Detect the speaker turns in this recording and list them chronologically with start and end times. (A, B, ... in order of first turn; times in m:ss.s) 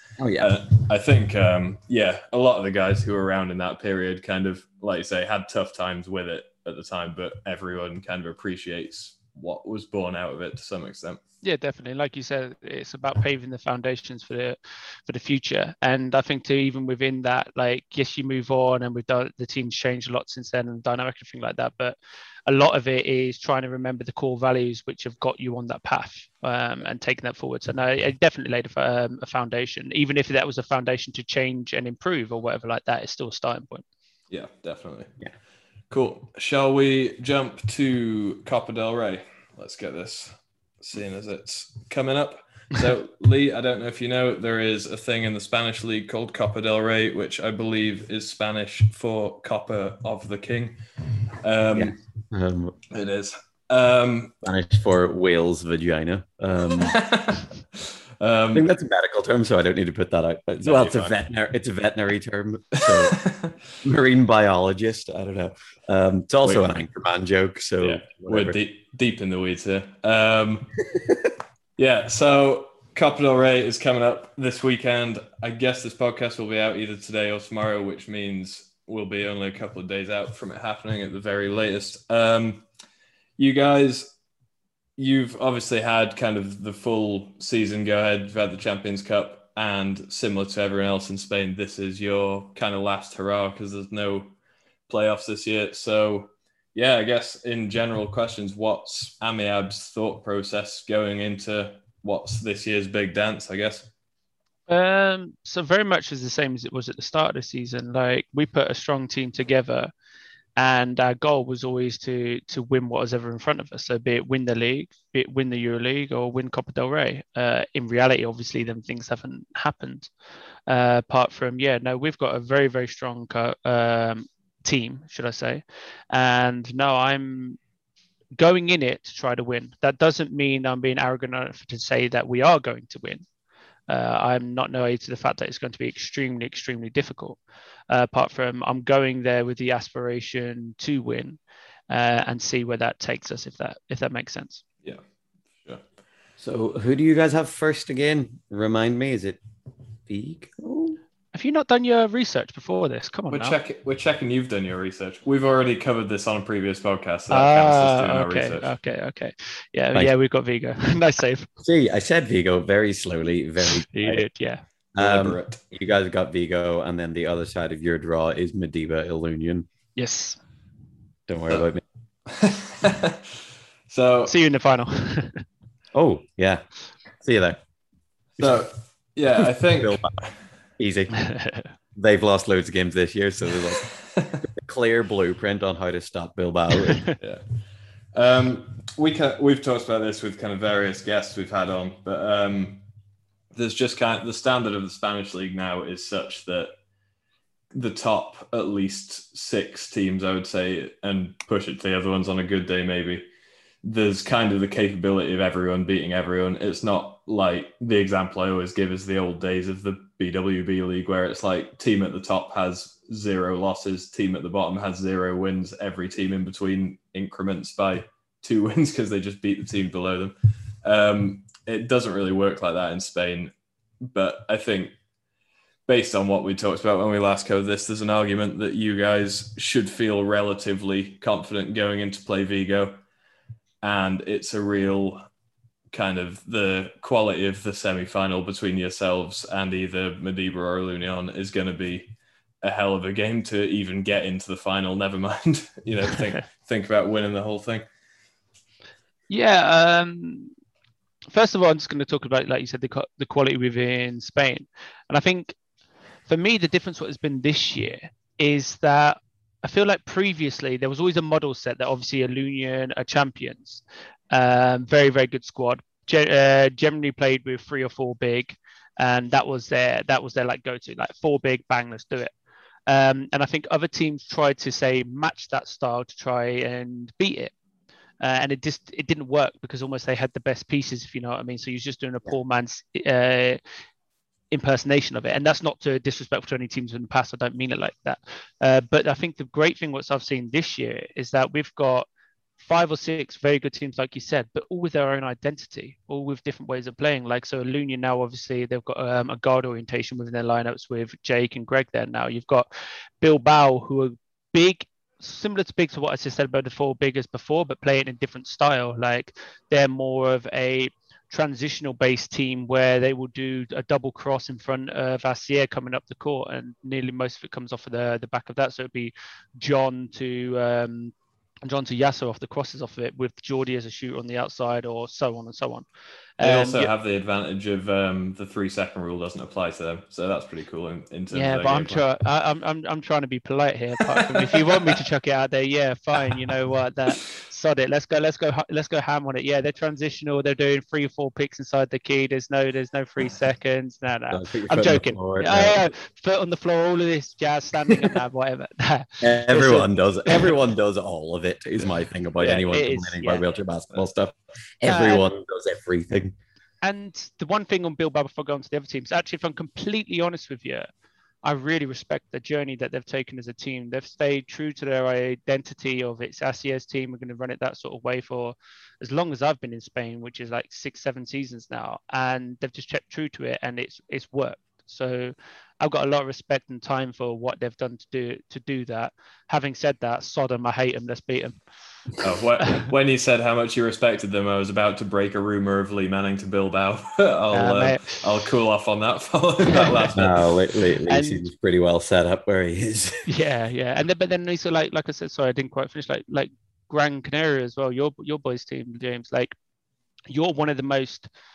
0:00.2-0:00.5 A
0:00.4-0:11.2 B
0:11.4-0:22.0 C
0:22.5-0:33.8 C
0:34.3-0:35.1 B
0:35.9-0:50.8 B
0:51.4-0:52.0 B
0:51.7-0:52.8 A
0:52.9-0:54.3 B
0:54.4-0:57.0 A
0:56.8-0:58.6 B
0:58.5-1:03.2 A
1:00.6-1:01.1 B
1:02.8-1:03.5 B
1:03.8-1:08.6 A
1:07.8-1:10.8 B
1:11.8-1:22.6 B
1:23.4-1:24.1 B
1:25.0-1:34.3 B
1:34.9-1:43.9 B
1:44.7-1:49.9 C
1:50.6-2:00.1 C
2:00.7-2:07.6 C
2:08.4-2:13.2 C
2:13.9-2:21.4 C
2:21.9-2:24.6 C
2:26.4-2:29.4 A
2:30.1-2:31.0 A
2:31.3-2:33.6 C
2:33.3-2:38.7 B
2:37.3-2:41.5 C
2:41.6-2:44.2 A
2:43.9-2:44.6 C
2:45.0-2:49.6 A
2:45.0-2:45.6 B
2:50.0-2:50.4 C
2:51.3-2:51.8 A
2:52.3-2:54.3 B
2:54.3-2:55.4 C
2:55.9-2:56.6 A
2:57.2-2:57.6 A
2:58.4-3:00.0 B
2:59.4-3:00.2 A
3:00.8-3:01.2 A
3:01.2-3:01.7 C
3:02.0-3:03.9 A
3:03.8-3:04.4 B
3:04.4-3:07.1 A
3:07.2-3:07.6 B
3:08.1-3:12.8 B
3:13.5-3:16.7 B
3:17.7-3:23.2 B
3:23.8-3:44.9 B
3:45.9-3:53.0 B
3:53.8-3:55.2 B
3:55.9-4:07.8 B
4:09.3-4:10.5 C
4:11.3-4:15.6 C
4:16.3-4:32.3 C
4:32.9-4:37.5 C
4:38.2-4:43.6 C
4:44.5-4:52.1 C
4:52.6-5:02.7 C
5:03.2-5:21.1 C
5:21.6-5:25.8 C
5:26.4-5:26.9 C
5:26.4-5:32.0 B
5:31.3-5:50.6 C
5:34.4-5:34.9 B
5:44.3-5:45.9 A
5:49.2-5:56.4 A
5:52.4-5:53.4 C
5:54.8-5:55.2 C
5:56.8-6:00.9 C
6:01.4-6:21.6 C
6:22.2-6:30.6 B
6:22.6-6:22.9 C
6:27.5-6:28.2 C
6:30.1-6:33.3 A
6:31.1-6:31.5 C
6:33.3-6:39.5 C
6:40.3-6:41.3 C